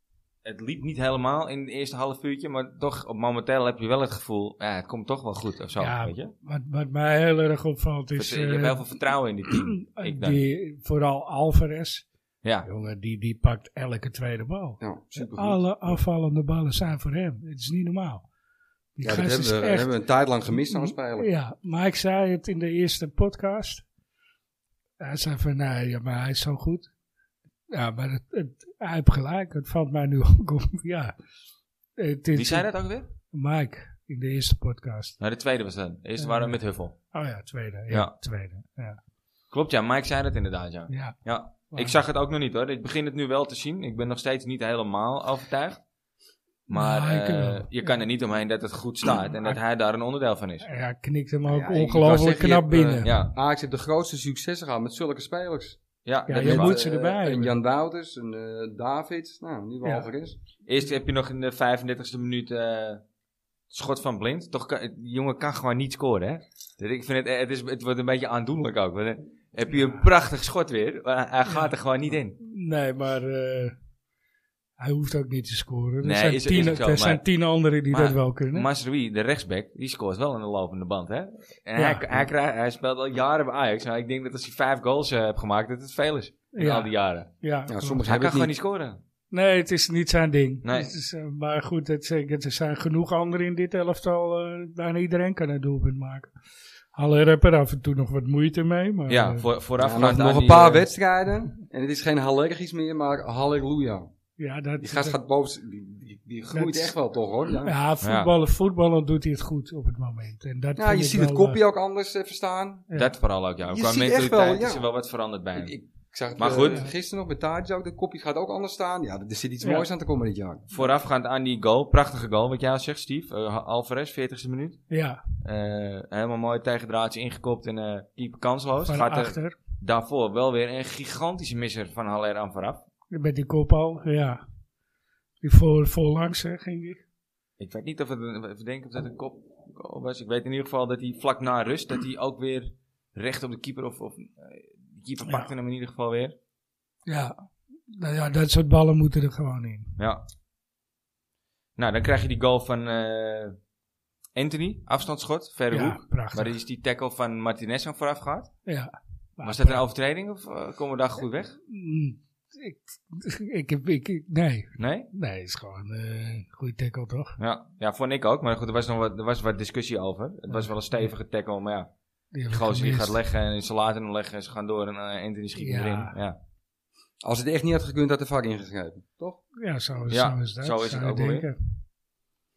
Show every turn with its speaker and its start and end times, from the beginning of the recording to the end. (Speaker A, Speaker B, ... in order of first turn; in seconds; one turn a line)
Speaker A: 0.4-6.3
Speaker B: 5.8-12.1
Speaker A: 8.2-10.4
Speaker B: 12.7-18.3
Speaker C: 14.8-16.0
Speaker B: 19.0-19.9
Speaker C: 19.0-21.3
Speaker B: 20.5-23.8
Speaker B: 25.0-26.9
Speaker B: 27.7-31.1
Speaker B: 32.0-32.7
Speaker A: 32.3-33.1
Speaker B: 33.3-35.2
Speaker A: 35.2-37.0
Speaker B: 36.2-39.0
Speaker A: 39.5-45.8
Speaker B: 40.9-41.2
Speaker B: 41.7-42.0
Speaker A: 46.7-50.7
Speaker B: 46.7-47.8
Speaker B: 50.6-53.1
Speaker C: 51.5-55.8
Speaker A: 53.0-53.3
Speaker A: 56.1-56.8
Speaker B: 56.3-57.5
Speaker C: 56.3-60.4
Speaker A: 60.6-63.0
Speaker A: 63.7-72.4
Speaker B: 69.8-70.0
Speaker B: 72.4-73.8
Speaker B: 74.8-78.7
Speaker A: 76.0-77.2
Speaker A: 77.9-87.3
Speaker B: 81.8-82.1
Speaker B: 86.5-88.0
Speaker C: 87.7-88.5
Speaker A: 88.0-89.0
Speaker B: 89.3-96.3
Speaker A: 90.6-90.9
Speaker B: 97.0-99.5
Speaker A: 99.1-100.9
Speaker C: 99.8-104.1
Speaker B: 104.4-105.2
Speaker C: 104.8-107.8
Speaker B: 106.5-106.9
Speaker B: 107.5-111.6
Speaker A: 108.0-108.3
Speaker C: 110.8-112.9
Speaker A: 113.0-115.7
Speaker C: 113.7-114.8
Speaker C: 115.5-120.8
Speaker A: 116.4-116.9
Speaker B: 119.6-119.9
Speaker A: 120.7-124.8
Speaker B: 124.9-125.2
Speaker A: 125.4-132.9
Speaker B: 128.8-129.6
Speaker B: 133.1-134.4
Speaker B: 135.4-137.0
Speaker A: 137.6-146.3
Speaker B: 147.1-147.3
Speaker B: 147.9-150.0
Speaker A: 150.0-150.2
Speaker A: 151.8-153.6
Speaker A: 154.4-158.5
Speaker B: 155.7-156.5
Speaker B: 158.7-159.8
Speaker A: 159.4-161.6
Speaker B: 161.7-167.4
Speaker A: 164.8-165.1
Speaker A: 167.4-171.9
Speaker B: 172.3-173.2
Speaker A: 172.5-176.4
Speaker B: 175.6-176.1
Speaker C: 177.2-179.4
Speaker B: 179.6-181.8
Speaker A: 180.1-181.5